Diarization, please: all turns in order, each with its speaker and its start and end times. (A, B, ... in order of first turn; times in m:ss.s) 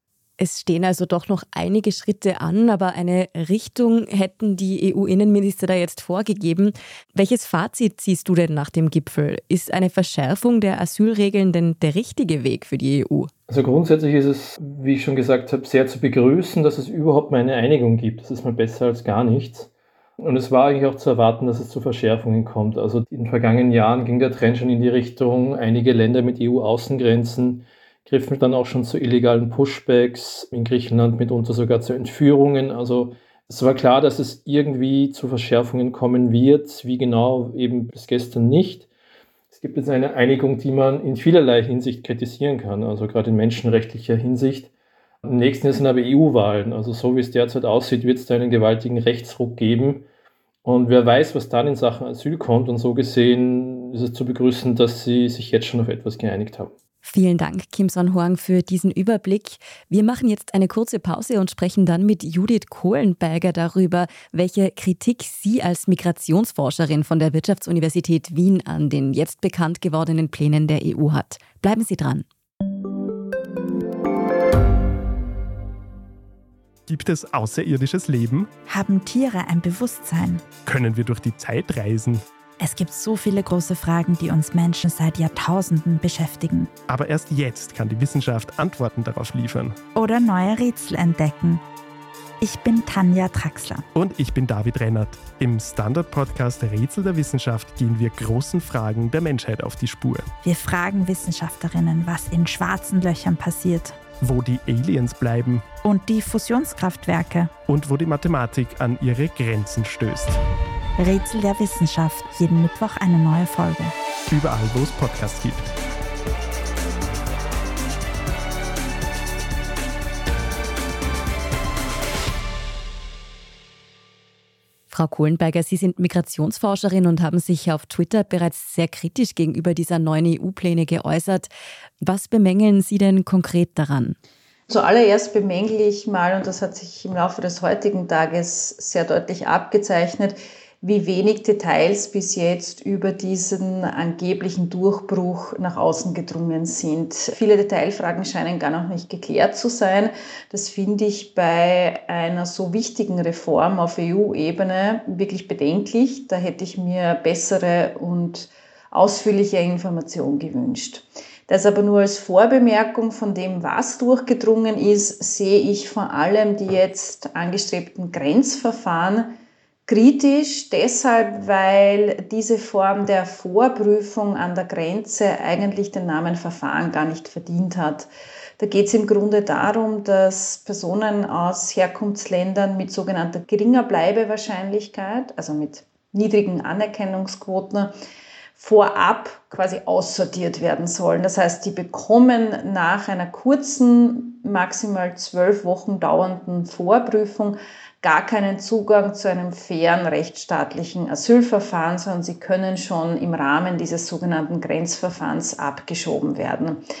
0:00.4-0:13.3 A
0:13.5-0:38.9 B
0:39.5-0:44.7 B
0:45.2-0:50.0 B
0:50.6-0:56.7 B
0:57.0-1:12.2 A
1:16.9-1:18.5 C
1:18.6-1:20.5 D
1:20.5-1:22.2 C
1:22.6-1:26.7 D
1:26.9-1:29.8 C
1:29.9-1:31.6 D
1:32.4-1:33.8 D
1:33.9-1:40.3 C
1:40.4-1:44.0 D
1:44.2-1:45.7 C
1:45.8-1:47.5 D
1:47.6-1:50.4 C
1:51.0-1:53.9 D
1:54.3-1:55.7 C
2:04.9-2:11.5 A
2:12.0-2:14.2 A
2:14.7-2:49.3 E
2:49.9-2:58.1 E
2:58.6-3:07.9 E
3:08.6-3:26.8 E